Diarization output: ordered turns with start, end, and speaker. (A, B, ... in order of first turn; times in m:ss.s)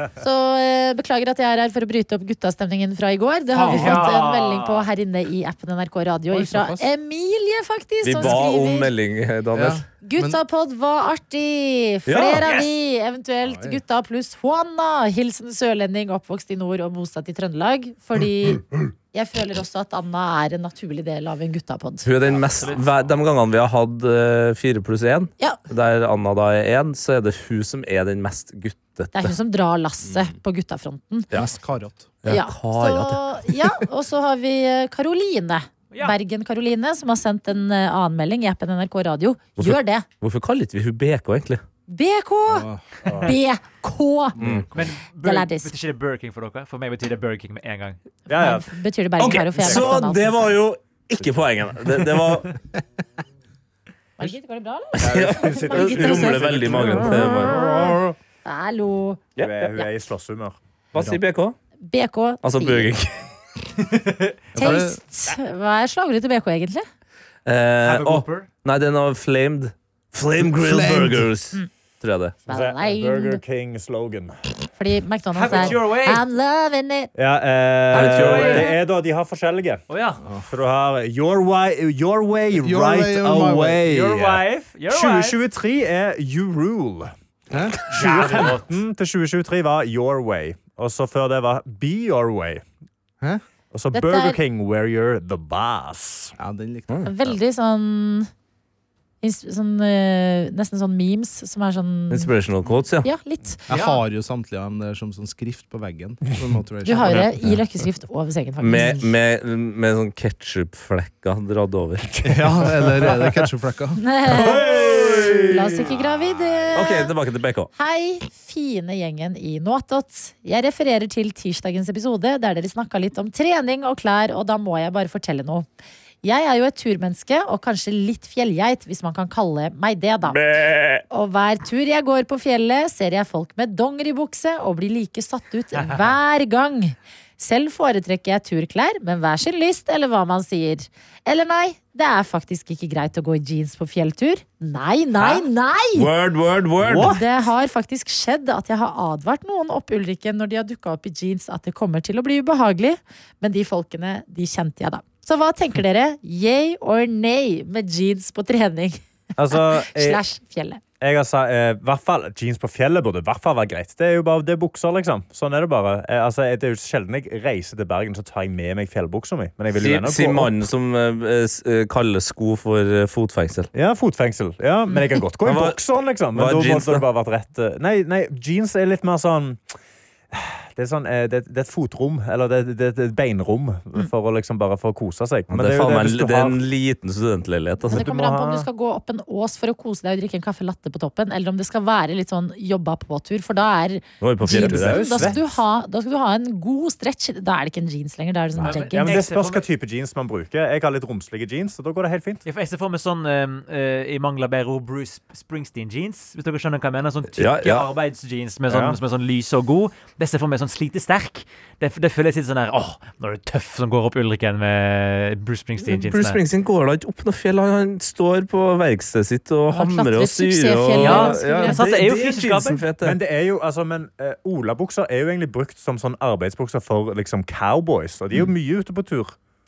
0:00.2-0:08.9 A
0:03.6-0:04.1 B
0:03.6-0:04.9 C
0:06.3-0:06.9 D
0:08.0-0:09.8 B
0:09.5-0:10.4 D
0:10.0-0:22.1 A
0:12.1-0:12.5 B
0:13.4-0:13.8 D
0:22.0-0:29.4 B
0:22.3-0:22.9 C
0:29.1-0:31.3 A
0:30.0-0:30.3 D
0:31.3-0:32.1 D
0:32.2-0:33.2 B
0:32.3-0:40.0 A
0:39.6-0:41.6 B
0:41.9-0:42.7 A
0:42.5-0:42.8 D
0:43.0-0:43.3 E
0:43.2-0:44.4 A
0:44.4-0:44.9 D
0:44.4-0:44.7 B
0:44.7-0:48.0 C
0:45.2-0:45.7 A
0:48.3-0:48.7 E
0:48.3-0:50.5 A
0:49.2-0:52.6 B
0:54.2-0:56.5 A
0:55.0-0:57.6 B
0:55.0-0:57.2 E
0:56.9-0:58.2 D
0:57.1-0:57.8 A
0:58.4-0:59.2 A
0:59.4-0:59.7 B
0:59.4-1:00.6 E
1:00.9-1:01.6 B
1:00.9-1:01.2 D
1:01.8-1:02.9 A
1:02.4-1:03.2 B
1:03.9-1:04.4 C
1:04.5-1:05.0 D
1:04.6-1:06.8 A
1:07.5-1:12.4 B
1:07.8-1:08.5 C
1:10.4-1:11.3 D
1:12.5-1:14.4 E
1:12.5-1:13.4 A
1:14.8-1:17.1 A
1:15.3-1:16.2 C
1:17.2-1:19.8 E
1:17.9-1:18.7 B
1:18.0-1:18.7 C
1:19.9-1:20.2 C
1:20.2-1:20.5 D
1:20.5-1:27.1 E
1:22.6-1:23.9 D
1:23.9-1:25.4 C
1:27.5-1:28.4 D
1:27.8-1:32.6 E
1:27.9-1:28.7 C
1:33.7-1:36.4 E
1:33.9-1:34.4 A
1:36.4-1:37.1 D
1:37.0-1:38.3 A
1:39.2-1:42.3 A
1:42.1-1:43.1 B
1:43.0-1:43.6 A
1:43.7-1:47.3 D
1:43.7-1:44.0 C
1:46.8-1:49.1 A
1:48.6-1:52.1 B
1:52.2-1:53.4 E
1:52.2-1:54.0 D
1:54.0-1:54.6 A
1:54.3-1:55.7 B
1:54.4-1:56.9 E
1:55.5-1:57.1 A
1:56.7-1:57.7 B
1:57.8-2:05.7 A
2:06.2-2:10.4 A
2:10.3-2:11.0 B
2:11.1-2:26.1 A
2:15.8-2:16.1 C
2:26.0-2:27.2 B
2:26.8-2:27.2 E
2:27.0-2:40.8 A
2:39.4-2:40.2 E
2:41.0-2:50.6 E
2:49.8-2:53.7 B
2:53.7-2:59.6 E
2:55.4-2:55.8 B
2:56.3-2:57.0 B
3:00.3-3:06.7 E
3:05.5-3:08.1 B
3:07.9-3:08.7 E
3:07.9-3:19.2 A
3:14.2-3:15.4 B
3:14.5-3:15.6 E
3:18.6-3:19.7 C
3:18.9-3:22.4 E
3:22.5-3:36.4 C
3:27.4-3:27.9 B
3:28.7-3:29.0 E
3:35.8-3:43.2 B
3:39.7-3:41.8 A
3:41.0-3:42.8 C
3:43.0-3:49.4 E